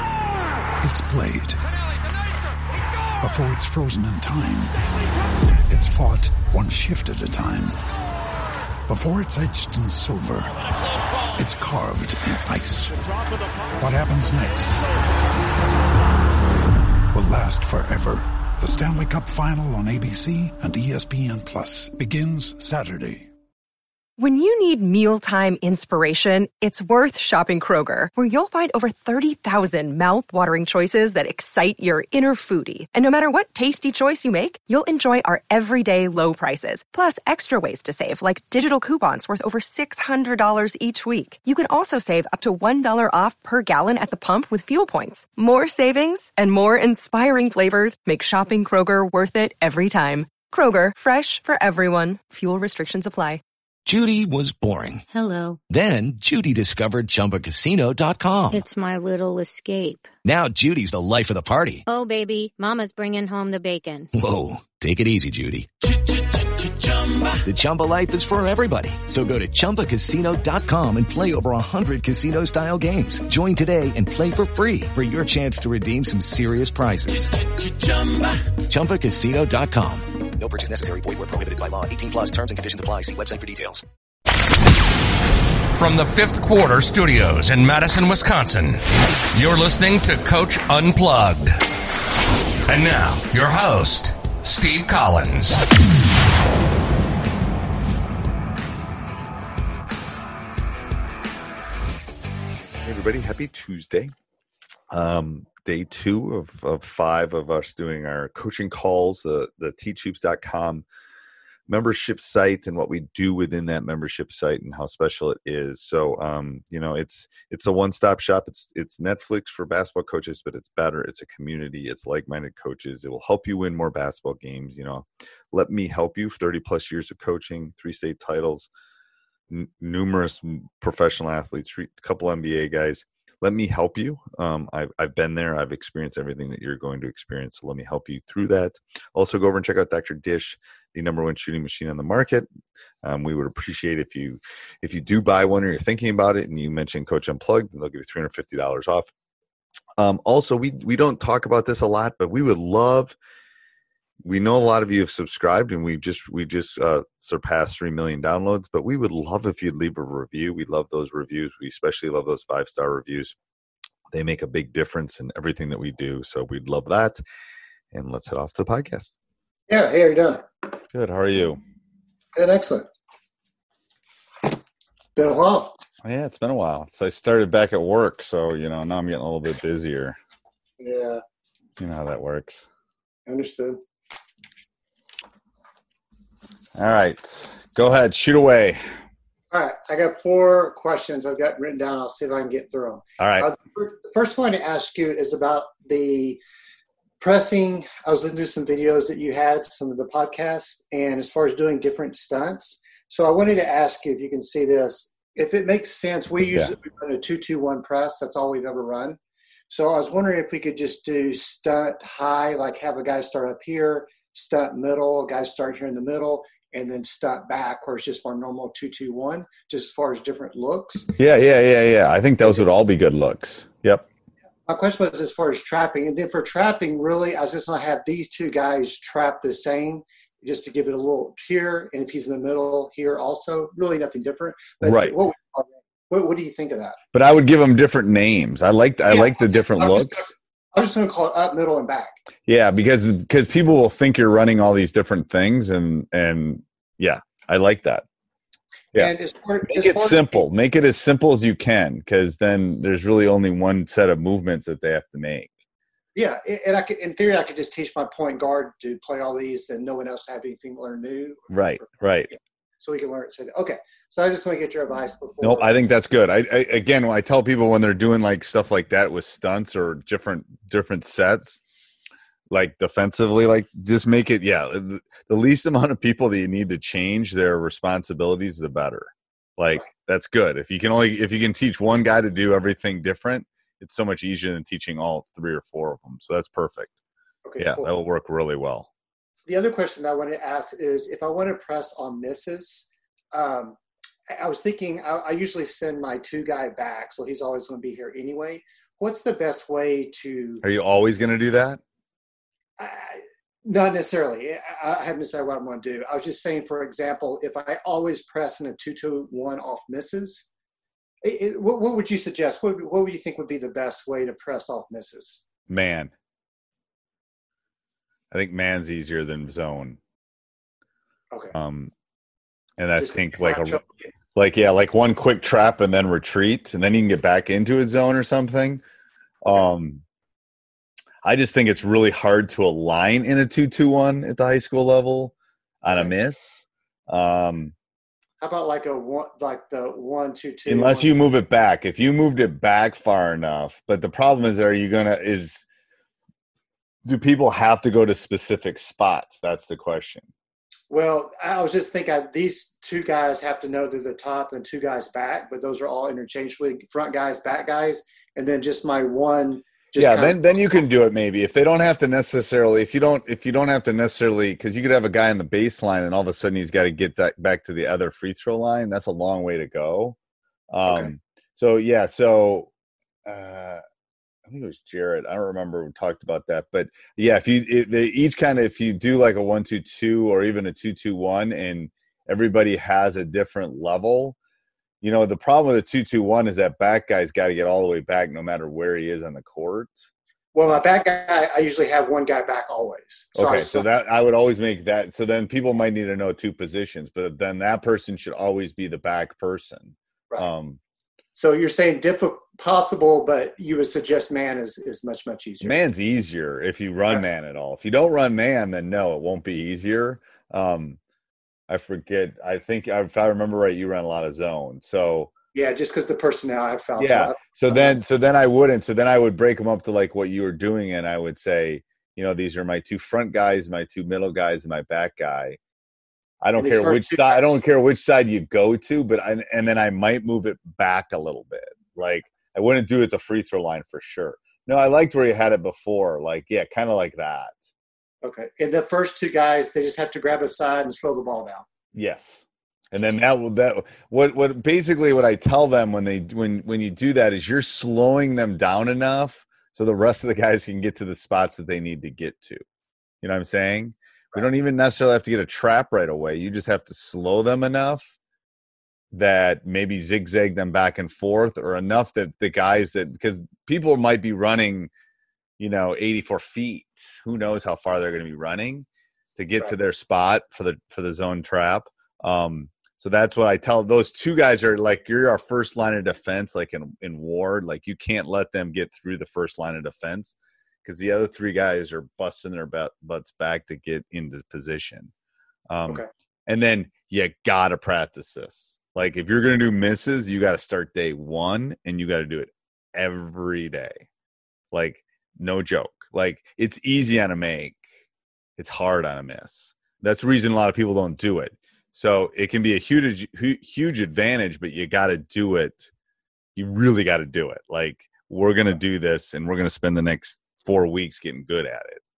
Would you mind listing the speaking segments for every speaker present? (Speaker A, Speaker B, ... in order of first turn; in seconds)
Speaker A: 0.8-1.6, 3.2-4.8, 5.7-7.8, 8.9-10.6, 11.3-13.0, 13.8-14.8, 17.1-23.3
Speaker B: 24.2-53.4
Speaker C: 53.8-55.0, 55.7-58.5, 60.2-61.8, 64.2-65.7, 67.4-77.3, 78.6-83.8
Speaker D: 55.1-55.6, 58.5-60.1, 61.9-64.1
Speaker E: 85.7-88.8, 89.3-91.6, 92.7-95.6
Speaker F: 102.8-104.1, 104.9-110.8, 111.7-128.7, 129.5-142.5, 143.0-149.1, 150.0-153.2, 154.2-163.3, 164.1-167.2, 167.9-169.1, 170.9-171.6, 176.0-180.2, 181.8-182.7, 186.8-188.8, 193.2-193.5, 206.4-206.7, 221.2-224.1, 234.8-235.2, 237.1-240.3, 242.5-248.0, 249.7-255.5, 261.5-262.3, 265.4-271.6, 272.5-286.9, 287.6-288.9, 300.6-301.8, 315.7-316.1, 318.3-320.0, 321.5-321.9, 322.8-323.8, 324.3-328.8, 329.4-330.0, 331.2-337.7, 340.7-345.6, 347.1-350.3, 359.9-370.2, 370.7-372.7, 373.2-373.8, 374.5-384.4, 385.0-390.0, 393.3-400.8, 405.6-411.0, 411.7-415.3, 417.0-425.6, 426.4-437.6, 441.9-452.6, 453.2-458.1, 459.1-464.9, 465.6-468.9, 469.4-485.1, 485.7-494.0, 494.7-497.8, 498.6-505.9, 506.6-512.0
Speaker G: 169.7-170.4, 172.3-172.9, 175.2-175.8, 180.8-181.2, 183.2-183.8, 189.5-196.4, 197.2-209.2, 209.7-221.1, 224.7-237.0, 239.1-242.2, 248.9-250.5, 256.1-265.7, 287.4-287.9, 289.5-293.8, 294.3-300.6, 302.8-310.5, 311.2-315.4, 323.0-324.1, 335.9-336.1, 338.4-341.2, 350.9-360.4, 370.9-371.1, 390.5-393.9, 401.3-405.8, 415.5-418.0, 426.6-427.6, 438.2-441.6